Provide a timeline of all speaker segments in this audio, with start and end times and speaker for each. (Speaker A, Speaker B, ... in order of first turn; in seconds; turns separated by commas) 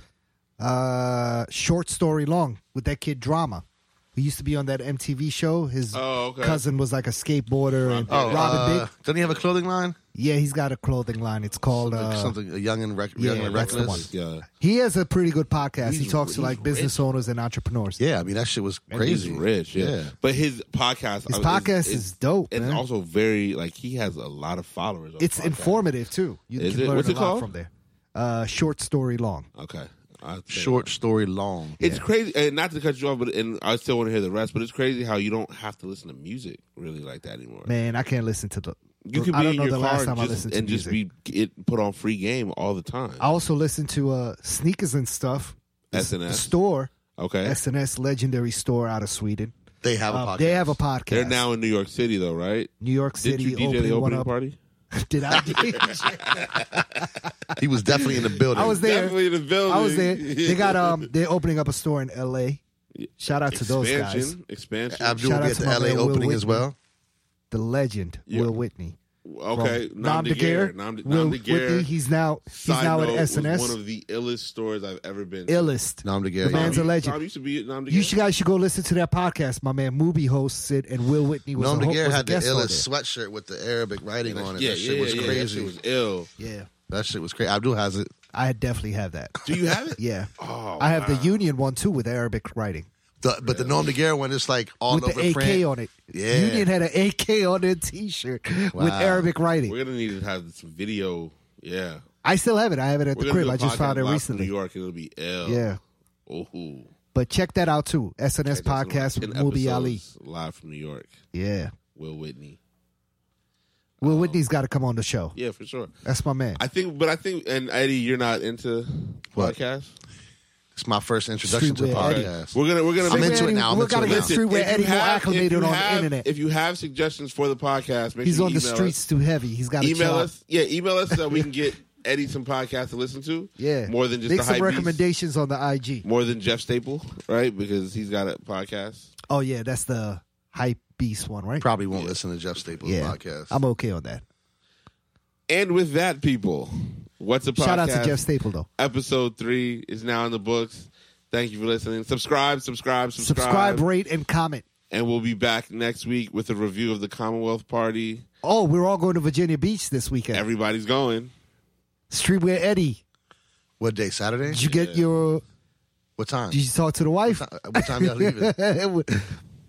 Speaker A: 0.6-3.6, Speaker A: 4.1-8.9, Speaker B: 5.9-6.6, Speaker B: 7.8-8.7, Speaker C: 8.1-10.0, Speaker A: 10.1-12.3, Speaker C: 11.8-14.1, Speaker A: 13.2-18.0, Speaker B: 13.3-14.4, Speaker B: 15.8-17.0, Speaker C: 18.0-20.1, Speaker B: 18.9-25.8, Speaker A: 21.3-22.8, Speaker A: 25.2-29.5, Speaker B: 26.6-27.5, Speaker B: 29.6-30.9, Speaker C: 30.5-31.8, Speaker B: 31.8-37.7, Speaker A: 37.7-41.0, Speaker B: 39.0-43.2, Speaker A: 43.2-46.9, Speaker B: 45.9-46.5, Speaker B: 47.1-47.6, Speaker A: 47.4-49.5, Speaker C: 49.8-50.8, Speaker A: 50.1-51.4, Speaker B: 51.1-52.7, Speaker A: 52.8-54.3, Speaker B: 53.2-54.5, Speaker A: 54.9-56.1, Speaker C: 55.3-56.4, Speaker B: 55.4-57.1, Speaker C: 57.6-58.8, Speaker B: 58.2-61.1, Speaker A: 58.5-62.6, Speaker B: 62.9-65.2, Speaker A: 63.2-64.3, Speaker C: 64.9-66.8, Speaker A: 65.2-66.7, Speaker A: 67.5-69.0, Speaker B: 69.2-71.9, Speaker A: 69.5-73.8, Speaker B: 72.5-75.7, Speaker A: 75.5-77.2, Speaker C: 76.0-76.8, Speaker B: 76.5-78.1, Speaker A: 77.9-82.8, Speaker C: 81.5-85.7, Speaker B: 84.3-86.3, Speaker A: 86.4-86.7, Speaker C: 86.9-88.1, Speaker A: 88.3-89.4, Speaker B: 89.4-91.4, Speaker A: 90.0-92.9, Speaker C: 93.2-96.7, Speaker B: 93.5-93.8, Speaker A: 94.9-99.7, Speaker C: 98.7-99.3, Speaker B: 99.7-102.0, Speaker A: 102.2-104.5, Speaker B: 103.1-105.6, Speaker A: 105.4-105.8, Speaker B: 106.3-106.9, Speaker A: 107.1-110.0, Speaker B: 108.5-111.1, Speaker A: 111.3-111.7, Speaker B: 111.9-112.6, Speaker B: 114.0-114.4, Speaker A: 114.0-115.3, Speaker B: 115.3-115.9, Speaker A: 116.0-116.6, Speaker B: 116.6-119.9, Speaker C: 120.7-124.3, Speaker A: 121.4-122.3, Speaker B: 121.9-129.0, Speaker A: 123.0-126.3, Speaker A: 128.2-130.3, Speaker B: 129.8-135.0, Speaker A: 131.1-131.4, Speaker A: 133.6-136.1, Speaker B: 136.0-139.1, Speaker A: 139.3-141.7, Speaker C: 141.6-143.6, Speaker B: 141.9-142.8, Speaker A: 142.8-144.2, Speaker B: 145.5-148.2, Speaker A: 147.6-148.7, Speaker B: 148.8-153.8, Speaker A: 153.2-154.6, Speaker B: 154.9-158.2, Speaker A: 158.4-160.4, Speaker B: 160.3-161.3, Speaker A: 162.1-163.0, Speaker C: 163.8-164.7, Speaker A: 164.5-165.4, Speaker B: 164.6-165.0, Speaker C: 166.2-166.6, Speaker A: 166.5-169.3, Speaker C: 167.3-168.5